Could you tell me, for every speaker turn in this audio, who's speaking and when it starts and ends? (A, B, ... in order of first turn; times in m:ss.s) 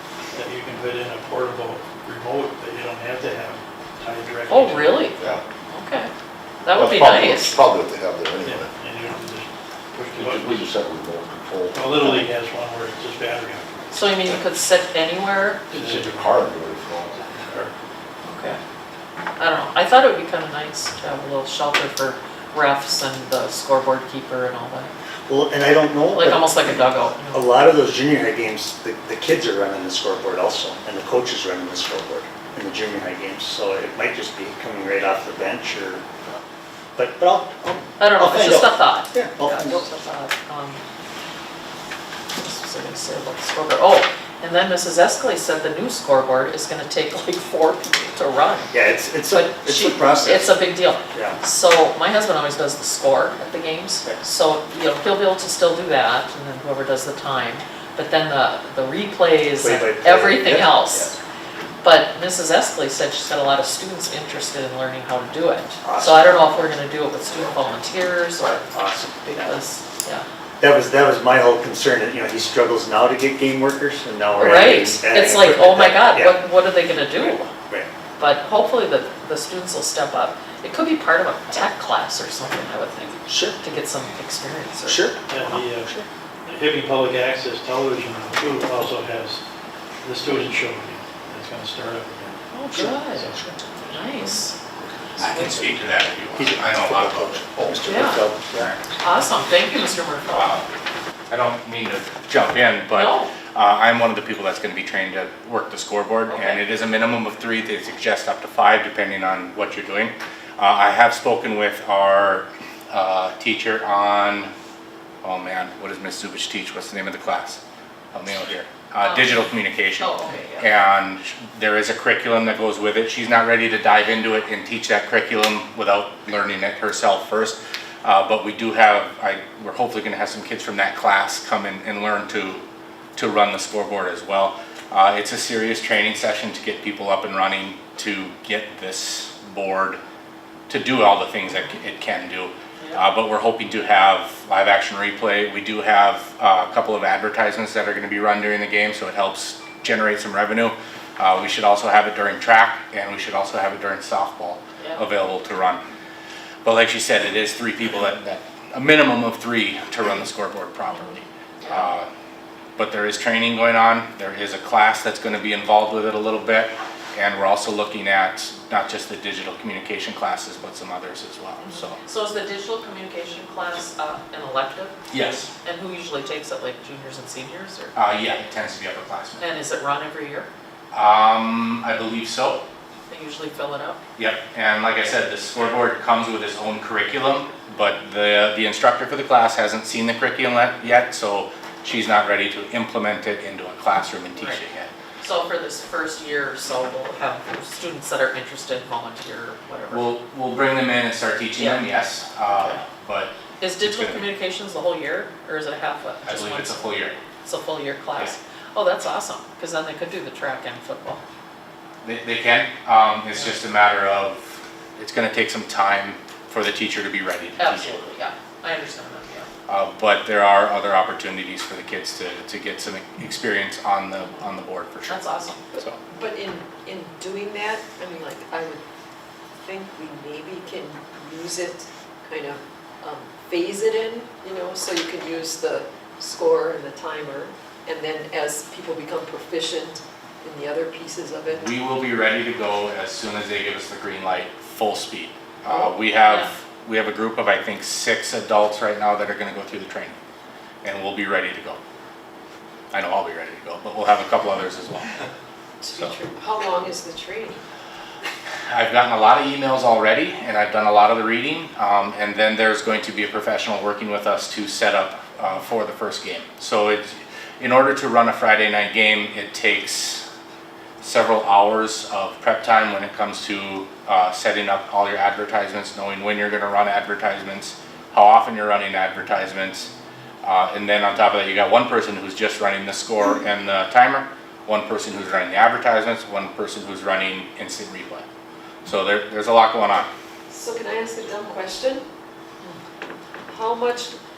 0:00.3-0:05.4 A
0:04.5-0:06.1 B
0:06.6-0:07.6 B
0:06.7-0:08.7 C
0:08.4-0:10.7 A
0:10.1-0:12.3 C
0:11.7-0:14.0 A
0:13.9-0:15.6 B
0:15.7-0:16.4 A
0:15.7-0:17.5 C
0:17.4-0:17.7 A
0:18.2-0:18.6 B
0:19.4-0:24.9 B
0:25.3-0:36.4 D
0:26.1-0:27.5 B
0:37.0-0:39.8 D
0:38.0-0:40.8 B
0:42.3-0:48.7 B
0:48.7-0:50.5 D
0:49.3-1:01.2 B
0:51.1-0:51.4 D
0:59.6-1:01.1 D
1:01.8-1:10.2 B
1:05.8-1:06.5 D
1:08.4-1:09.2 D
1:10.6-1:16.4 D
1:14.4-1:17.5 B
1:17.2-1:17.9 D
1:18.2-1:25.1 B
1:23.3-1:23.6 D
1:24.8-1:26.1 D
1:25.3-1:25.9 A
1:26.4-1:29.4 A
1:30.0-1:32.4 A
1:32.5-1:33.3 B
1:32.7-1:34.0 D
1:33.1-1:33.4 A
1:33.8-1:34.5 B
1:35.2-1:35.7 D
1:35.2-1:37.6 E
1:36.3-1:38.7 D
1:37.8-1:38.2 B
1:38.5-1:38.8 E
1:39.0-1:40.5 B
1:40.3-1:40.7 E
1:41.3-1:54.5 E
1:42.9-1:43.3 B
1:46.3-1:46.6 B
1:55.2-1:57.6 E
1:58.1-2:12.6 E
1:59.0-2:00.7 B
2:13.2-2:20.0 E
2:20.7-2:35.8 E
2:22.8-2:23.0 B
2:34.8-2:35.1 B
2:36.6-2:42.1 E
2:41.6-2:41.9 B
2:42.8-2:52.0 E
2:51.6-2:55.0 B
2:55.1-2:55.5 E
2:55.6-2:57.9 B
2:57.9-2:59.4 E
2:59.4-3:00.5 B
3:00.9-3:02.6 E
3:03.1-3:04.0 B
3:04.2-3:14.9 E
3:14.3-3:14.6 B
3:15.2-3:20.2 B
3:19.9-3:24.3 E
3:22.5-3:22.8 B
3:23.6-3:26.8 B
3:26.3-3:27.2 E
3:27.4-3:31.2 B
3:32.0-3:38.0 E
3:37.6-3:39.5 B
3:39.7-3:45.2 E
3:45.0-3:45.6 B
3:45.7-3:46.0 E
3:46.1-3:48.8 F
3:49.6-4:01.7 F
4:01.5-4:10.1 E
4:06.2-4:06.5 B
4:10.8-4:11.8 E
4:12.9-4:15.2 E
4:15.8-4:17.6 F
4:18.7-4:30.2 E
4:31.0-4:39.9 E
4:40.4-4:48.2 E
4:48.8-4:50.1 E
4:50.5-4:52.0 F
4:53.5-4:54.2 F